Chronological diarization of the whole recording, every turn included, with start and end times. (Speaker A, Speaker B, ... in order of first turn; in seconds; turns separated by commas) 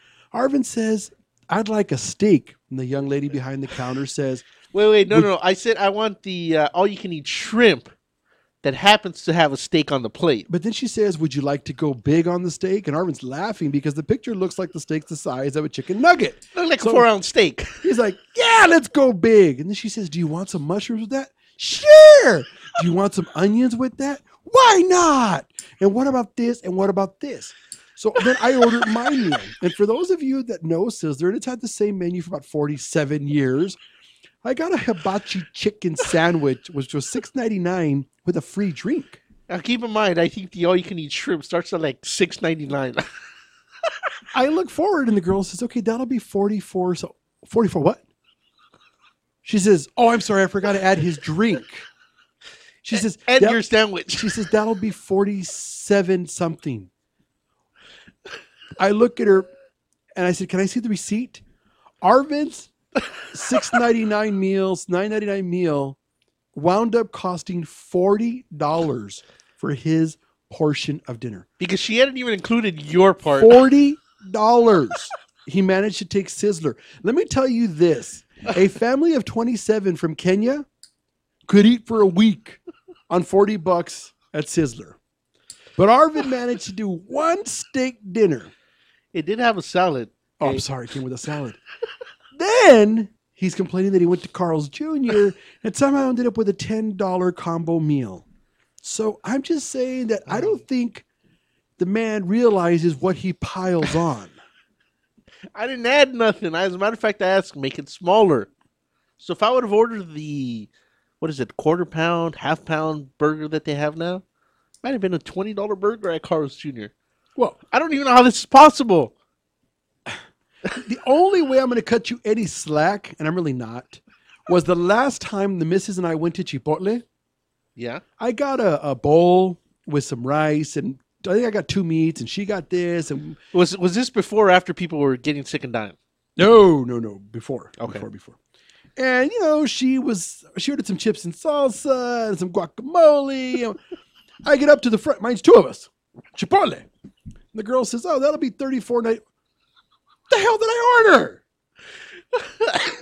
Speaker A: 0.3-4.5, Speaker B: 4.7-7.9, Speaker B: 8.6-10.5, Speaker A: 10.5-17.1, Speaker B: 16.6-17.8, Speaker A: 17.8-33.8, Speaker A: 34.4-39.2, Speaker B: 39.5-43.1, Speaker A: 44.3-48.0, Speaker A: 49.4-51.9, Speaker A: 52.8-56.9, Speaker B: 52.9-54.3, Speaker A: 58.8-59.5, Speaker A: 60.1-61.4, Speaker A: 62.0-62.7, Speaker A: 63.3-66.0, Speaker A: 66.5-71.5, Speaker B: 71.6-73.7, Speaker A: 73.3-80.7, Speaker A: 81.5-82.6, Speaker A: 83.1-85.0, Speaker A: 85.8-88.5, Speaker B: 89.1-90.6, Speaker A: 90.4-91.6, Speaker A: 92.3-98.2, Speaker A: 98.8-101.0, Speaker B: 100.3-100.6, Speaker A: 101.8-104.3, Speaker B: 105.5-108.5, Speaker B: 109.2-110.7, Speaker B: 111.2-114.2, Speaker B: 114.8-116.9, Speaker B: 117.7-119.1, Speaker A: 120.7-127.0, Speaker B: 127.8-128.0, Speaker A: 128.2-133.4, Speaker B: 133.5-136.0, Speaker A: 136.4-138.4, Speaker B: 137.8-138.0, Speaker A: 139.0-143.8, Speaker A: 144.4-146.9, Speaker A: 147.5-149.2, Speaker A: 150.3-151.4